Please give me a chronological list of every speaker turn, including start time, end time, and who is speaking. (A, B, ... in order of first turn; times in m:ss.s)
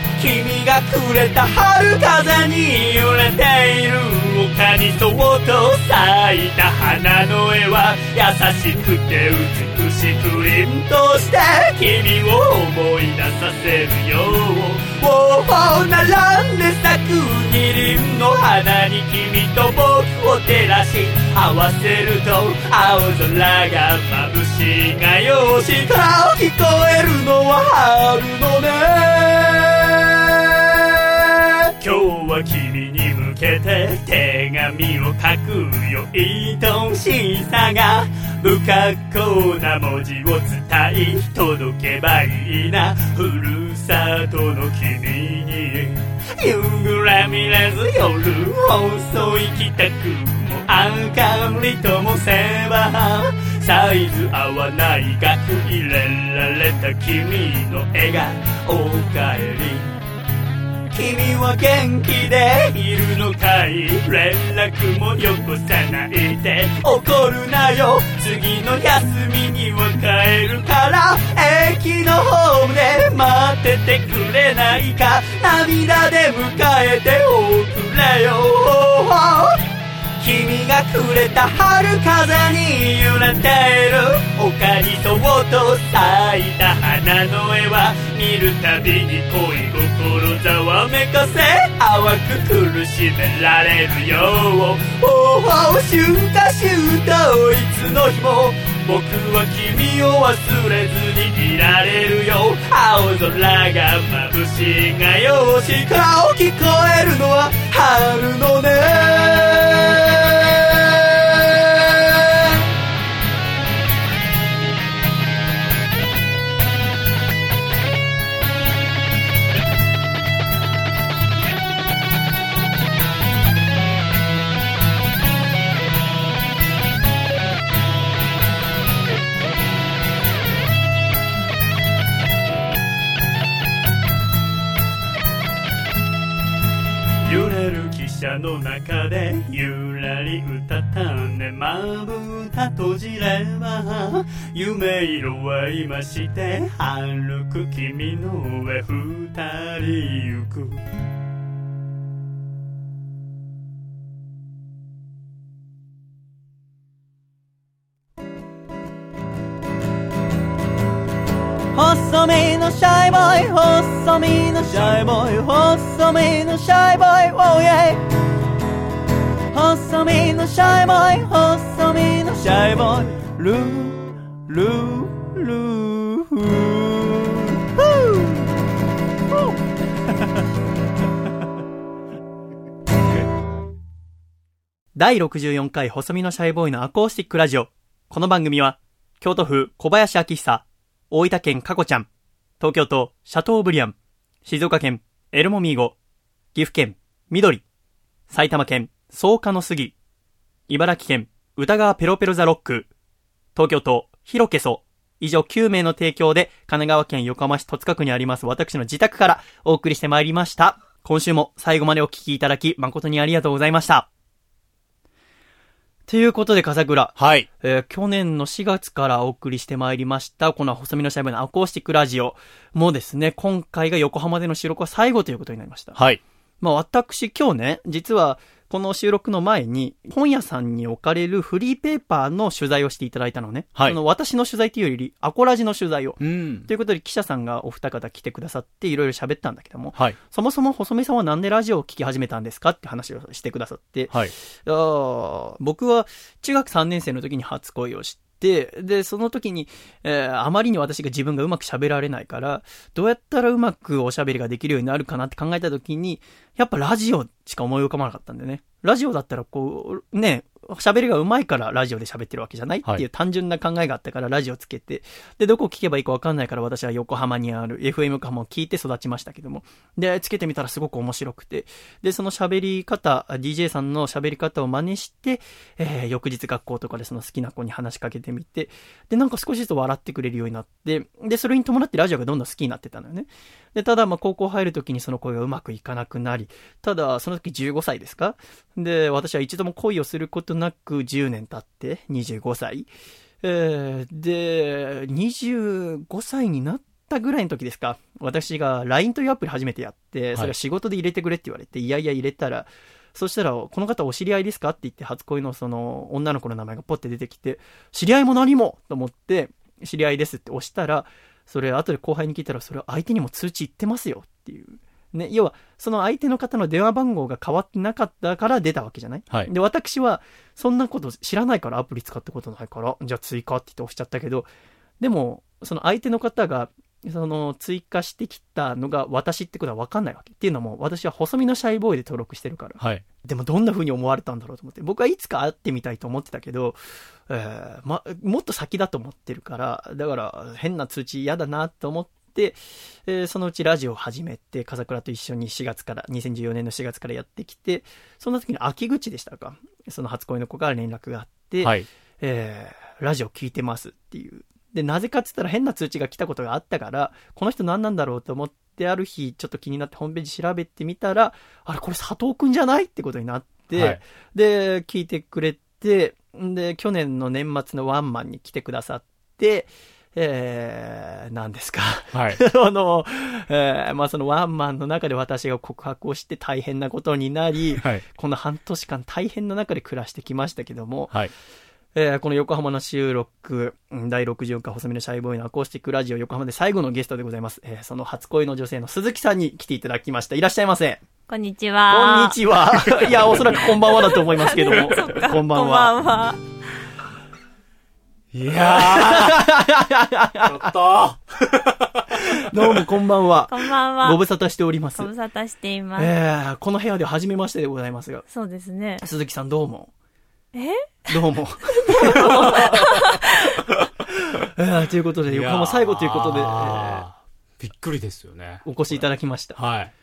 0:00.2-0:30.9 A
0:31.8-1:00.0 A
1:00.9-1:19.6 A
1:20.2-1:52.2 A
2:17.2-2:30.8 A
2:41.8-2:48.0 A
2:49.5-2:54.0 A
2:54.5-2:55.7 A
3:05.0-3:12.1 B
3:12.6-3:16.0 B
3:16.5-3:17.6 B
3:18.3-3:20.0 B
3:20.7-3:22.9 B
3:23.6-3:34.1 B
3:36.1-3:46.0 B
3:37.2-3:37.5 C
3:46.0-3:46.2 C
3:46.6-4:52.9 B
3:56.2-3:56.7 C
4:53.4-5:24.5 B
5:25.0-6:21.1 B
5:32.8-5:33.0 C
5:51.6-5:51.9 C
6:03.7-6:04.0 C
6:12.1-6:12.4 C
6:17.7-6:18.0 C
6:22.0-6:31.0 B
6:31.3-6:32.4 D
6:31.9-6:36.0 B
6:33.0-6:33.3 C
6:33.9-6:36.4 D
6:38.3-6:39.5 C
6:38.5-6:40.7 B
6:40.4-6:42.8 C
6:42.4-6:45.1 B
6:43.5-6:44.2 D
6:45.0-6:46.1 D
6:46.0-6:48.3 B
6:48.3-6:49.0 D
6:49.0-6:49.9 B
6:50.5-6:51.2 D
6:51.1-6:52.8 B
6:51.9-6:53.2 D
6:52.1-6:52.8 C
6:54.6-6:57.1 B
6:55.3-6:59.9 C
6:58.6-6:59.6 B